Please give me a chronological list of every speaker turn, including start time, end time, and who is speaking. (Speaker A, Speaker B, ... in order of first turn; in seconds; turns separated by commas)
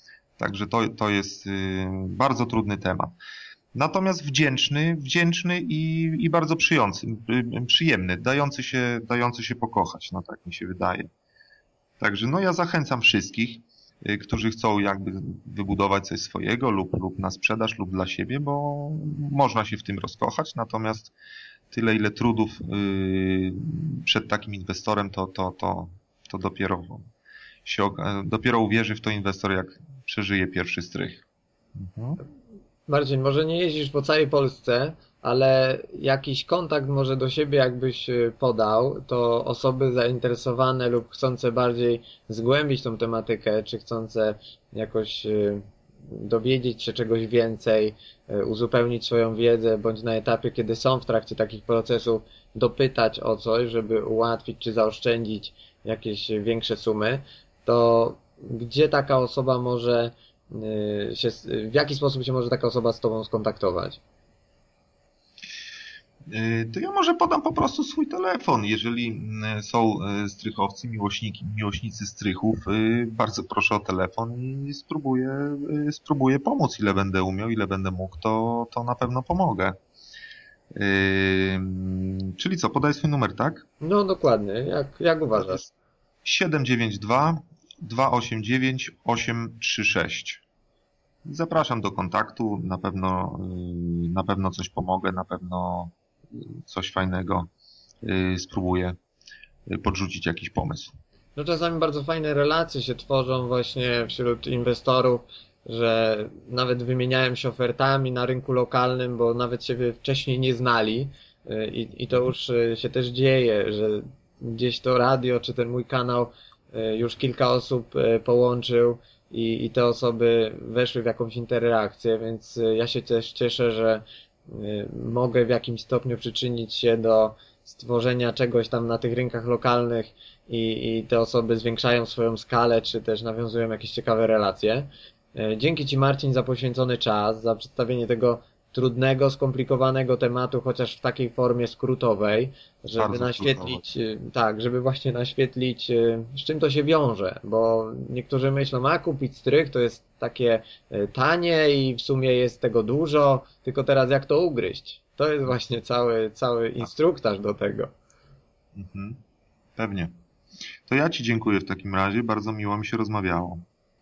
Speaker A: 0.4-3.1, Speaker A: 3.7-11.1, Speaker A: 12.0-21.1, Speaker A: 21.7-27.1, Speaker A: 27.6-31.2, Speaker A: 31.8-32.2, Speaker B: 32.9-64.0, Speaker A: 66.3-79.8, Speaker A: 80.7-83.7, Speaker B: 83.8-85.6, Speaker A: 85.4-85.7, Speaker A: 86.2-90.4, Speaker A: 91.3-97.5, Speaker A: 98.0-99.0, Speaker A: 99.7-100.9, Speaker B: 101.4-157.9, Speaker A: 143.0-143.8, Speaker A: 158.8-159.2, Speaker A: 159.8-160.1, Speaker A: 160.9-163.6